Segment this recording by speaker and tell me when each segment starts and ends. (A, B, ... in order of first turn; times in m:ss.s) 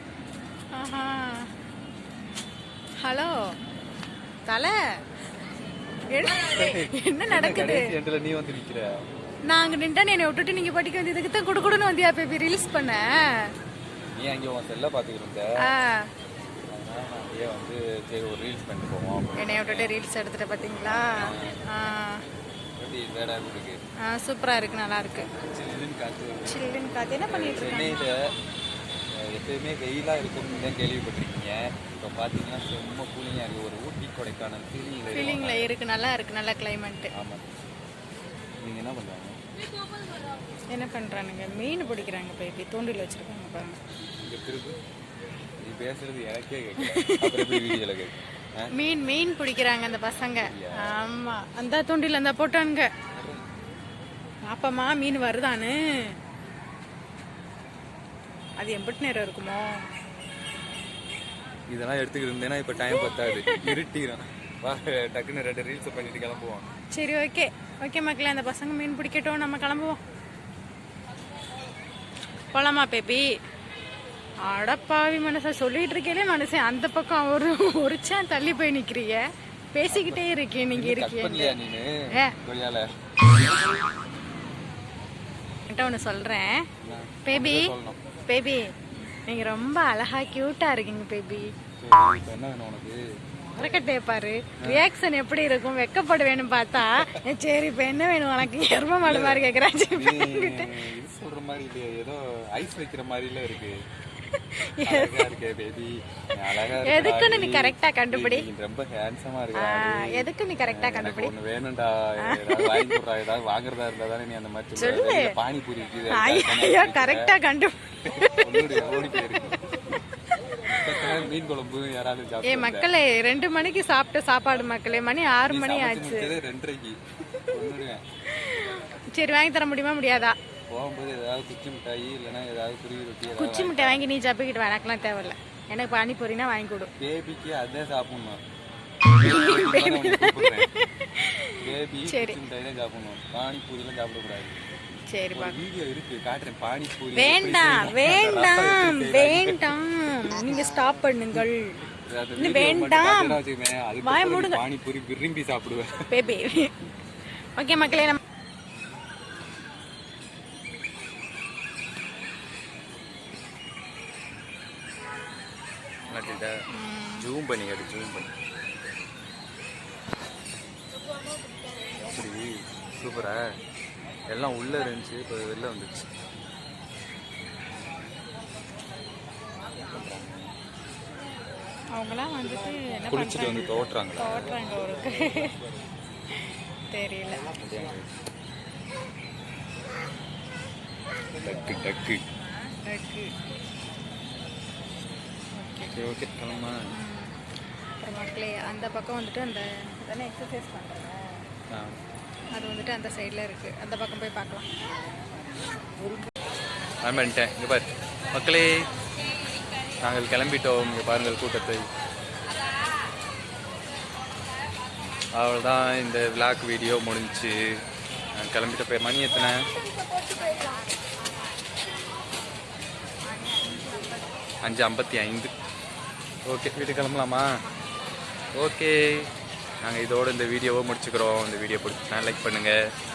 0:00.7-0:01.5 A
0:03.0-0:03.3 A
0:04.5-0:04.7 A
0:06.1-0:07.9 A
0:06.3-0:08.9 B
0:09.5-0:13.5 A
0:14.1-0:15.5 B
0:15.6-0:16.1 A
0:16.7-0:19.9 B
0:19.4-0:22.2 A
0:20.9-0:21.6 B
0:22.8-0:23.8 B
0:24.0-0:25.3 A
0:25.3-0:26.6 B
0:26.5-0:28.3 A
0:27.2-0:28.1 B
0:29.2-0:35.7 B
0:35.1-0:37.1 A
0:37.1-0:37.4 B
0:38.6-0:39.4 B
0:40.7-0:43.8 A
0:44.1-0:44.8 B
0:45.6-0:48.7 B
0:46.8-0:47.8 A
0:48.7-0:52.9 A
0:50.4-0:50.9 B
0:53.1-0:53.4 B
0:54.5-0:55.8 A
0:58.6-0:59.8 A
1:01.7-1:06.7 B
1:03.1-1:03.8 A
1:06.9-1:10.0 A
1:12.5-1:13.3 A
1:14.4-1:21.6 A
1:19.9-1:20.2 B
1:20.7-1:23.6 B
1:25.7-1:26.6 A
1:26.8-1:28.0 B
1:27.2-1:27.7 A
1:28.2-1:28.7 A
1:29.3-1:31.5 A
1:31.8-1:33.0 B
1:33.5-1:40.8 A
1:34.6-1:34.8 B
1:36.9-1:37.2 B
1:39.0-1:43.7 B
1:44.4-1:45.3 A
1:44.8-1:57.3 B
1:46.8-1:48.4 A
1:49.6-1:51.3 A
1:52.2-1:53.0 A
1:54.8-1:55.3 A
1:56.1-1:59.2 A
1:58.1-1:59.6 B
2:00.7-2:02.8 B
2:00.7-2:01.2 A
2:02.4-2:06.3 A
2:05.5-2:08.0 B
2:08.3-2:10.4 A
2:10.7-2:14.0 B
2:13.3-2:16.9 A
2:17.0-2:18.4 B
2:19.1-2:22.4 A
2:19.2-2:20.7 B
2:21.6-2:24.6 B
2:25.1-2:25.6 A
2:25.3-2:29.6 B
2:27.1-2:31.8 A
2:30.4-2:30.6 B
2:32.0-2:35.9 B
2:32.4-2:33.4 A
2:34.0-2:34.6 A
2:36.1-2:36.8 A
2:37.6-2:38.2 A
2:46.1-2:46.5 B
2:46.7-2:47.3 A
2:47.2-2:48.3 B
2:52.0-2:53.4 B
2:54.3-2:56.1 B
2:59.8-3:00.4 B
3:01.9-3:05.6 A
3:03.1-3:04.5 B
3:06.3-3:07.5 A
3:07.6-3:08.1 B
3:11.4-3:12.2 B
3:12.8-3:13.3 A
3:15.5-3:16.0 A
3:15.9-3:16.9 B
3:16.9-3:17.3 A
3:18.0-3:21.4 A
3:21.7-3:22.0 B
3:22.5-3:24.7 A
3:27.0-3:28.9 B
3:30.0-3:31.9 B
3:35.3-3:37.6 B
3:38.3-3:39.7 B
3:39.3-3:41.2 A
3:43.2-3:44.4 A
3:44.6-3:45.5 B
3:46.5-3:47.5 B
3:48.6-3:49.3 B
3:49.8-3:52.8 B